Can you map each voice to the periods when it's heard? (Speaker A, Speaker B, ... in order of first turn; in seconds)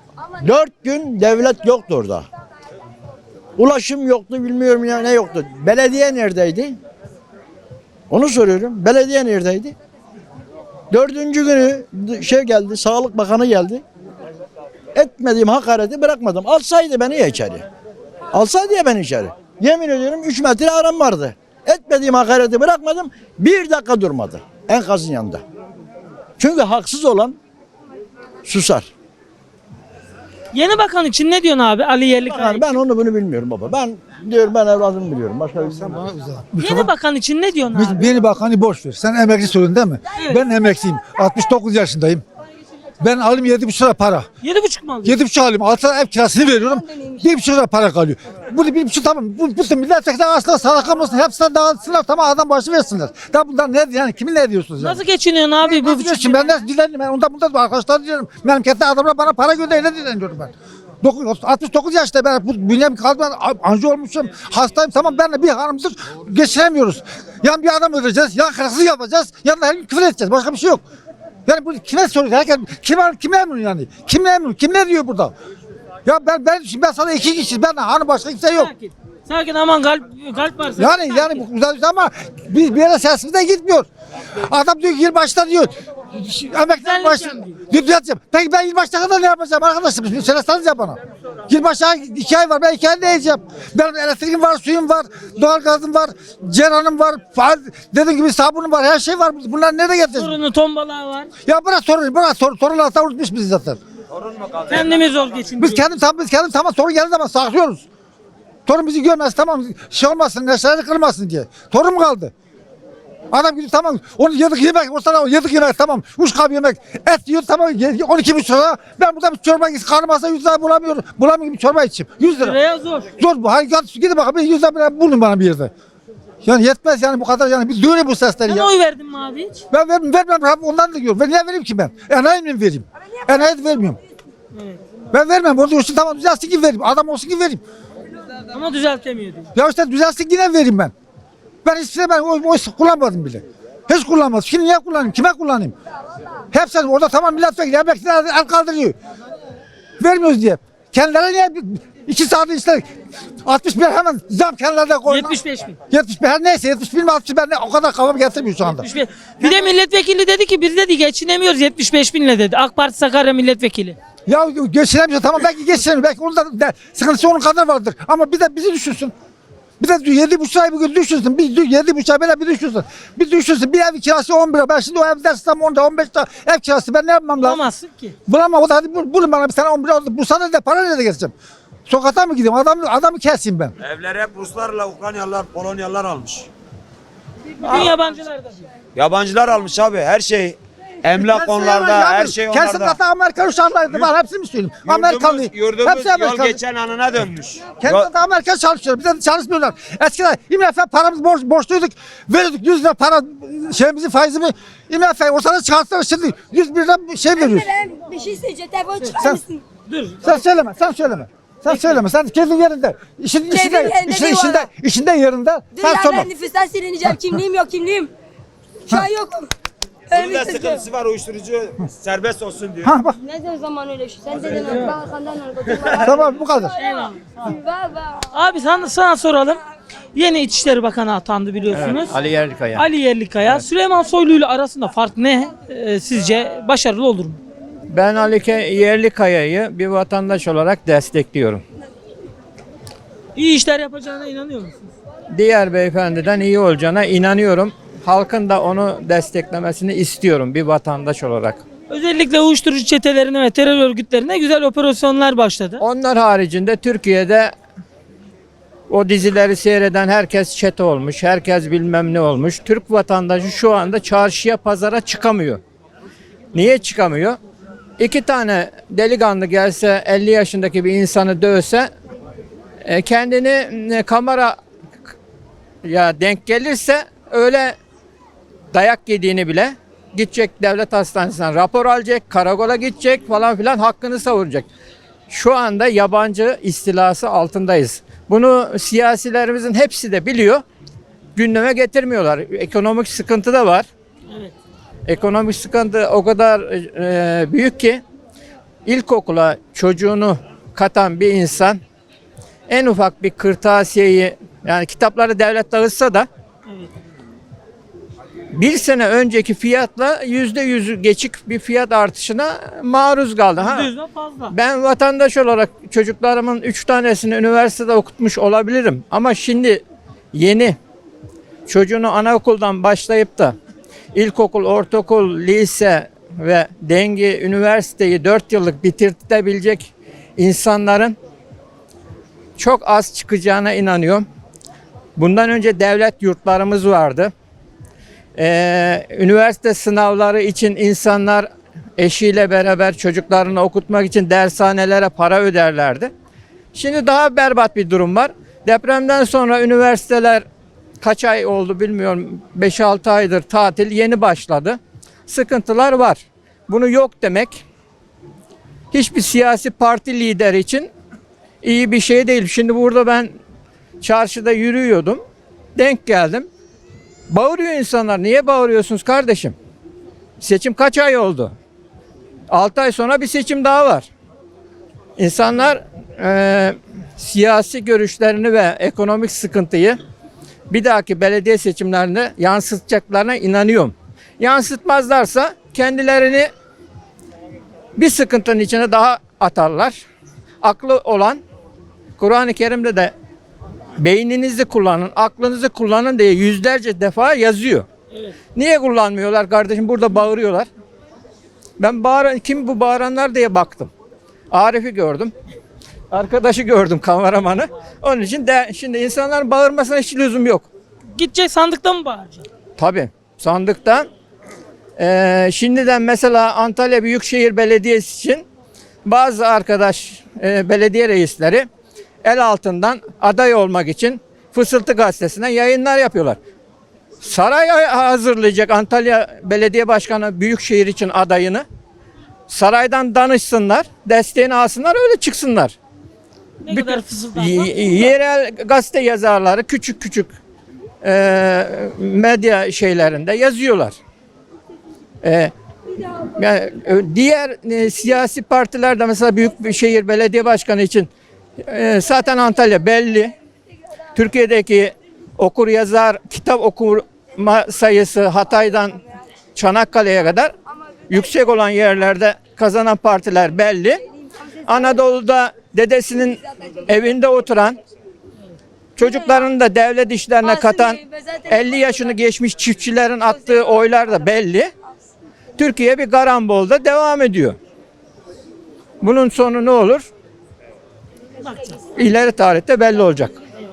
Speaker A: 0.4-2.2, 3.6-6.8, 8.1-9.8, 10.9-13.8, 14.9-17.6, 18.3-25.4, 26.4-27.4, 28.4-28.9, 32.2-36.0
Speaker B: 30.5-32.7, 36.6-38.0, 44.4-45.2, 54.8-56.6, 78.5-81.4, 86.8-87.6, 100.1-101.3, 104.7-105.9, 122.3-123.1, 128.5-129.6, 134.5-134.8, 138.5-139.5, 155.1-155.8, 158.7-164.0, 177.4-178.2, 187.6-188.7, 209.9-210.3, 226.8-227.3, 228.3-229.6, 230.1-232.2, 232.8-237.4, 243.3-244.9, 251.9-255.8, 294.3-294.5, 313.6-314.5, 411.1-412.4, 436.6-438.1, 481.4-481.8
Speaker C: 35.8-36.9, 37.7-42.2, 43.0-44.3, 45.0-55.0, 55.6-70.8, 71.5-75.3, 76.0-78.7, 80.8-100.4, 101.5-103.8, 105.6-107.8, 108.7-112.3, 113.3-122.6, 123.2-125.7, 126.4-128.7, 129.7-134.0, 135.1-137.6, 139.5-140.9, 141.6-145.7, 146.5-148.9, 150.0-152.8, 153.4-155.4, 155.9-158.9, 164.3-169.1, 169.8-177.6, 178.3-181.3, 181.9-183.7, 191.1-196.6, 197.6-207.7, 209.1-209.4, 210.2-216.3, 222.8-223.2, 226.0-226.7
Speaker D: 46.6-47.2, 207.4-209.6, 213.5-214.7, 215.8-218.1, 218.9-219.5, 220.1-220.8, 223.2-226.7, 227.4-228.3, 464.3-464.8, 469.0-469.3, 470.4-472.0, 473.4-473.6
Speaker E: 104.1-105.1, 183.8-186.5, 188.9-193.0, 194.8-198.1, 220.1-222.9
Speaker F: 231.7-232.8, 237.9-241.6, 245.3-251.6, 255.8-257.5, 258.9-265.6, 266.5-267.4, 268.0-271.9, 272.8-274.6, 275.8-277.8, 278.7-284.7, 285.3-290.6, 291.4-293.9, 295.1-298.0, 298.9-301.8, 302.7-306.3, 308.5-313.9, 314.5-319.8, 320.3-320.8, 321.7-323.6, 324.1-331.1, 332.6-334.2, 335.2-337.3, 338.4-346.1, 346.7-350.4, 351.0-357.6, 358.9-360.9, 361.6-363.3, 364.0-365.2, 365.8-366.5, 367.3-369.5, 370.4-371.5, 372.5-374.1, 375.2-380.0, 380.7-386.5, 388.0-390.0, 390.6-391.4, 392.2-393.1, 394.0-397.9, 398.5-400.7, 401.8-403.9, 404.5-405.3, 406.1-410.6, 412.8-414.1, 415.0-418.4, 419.0-421.7, 422.2-426.4, 427.2-431.6, 432.5-435.7, 436.7-440.3, 441.0-443.9, 445.2-445.5, 446.3-451.1, 451.6-453.3, 454.1-459.0, 459.5-460.5, 461.1-464.0, 464.6-467.8, 468.9-474.7, 475.6-477.6, 479.0-480.1, 481.9-483.3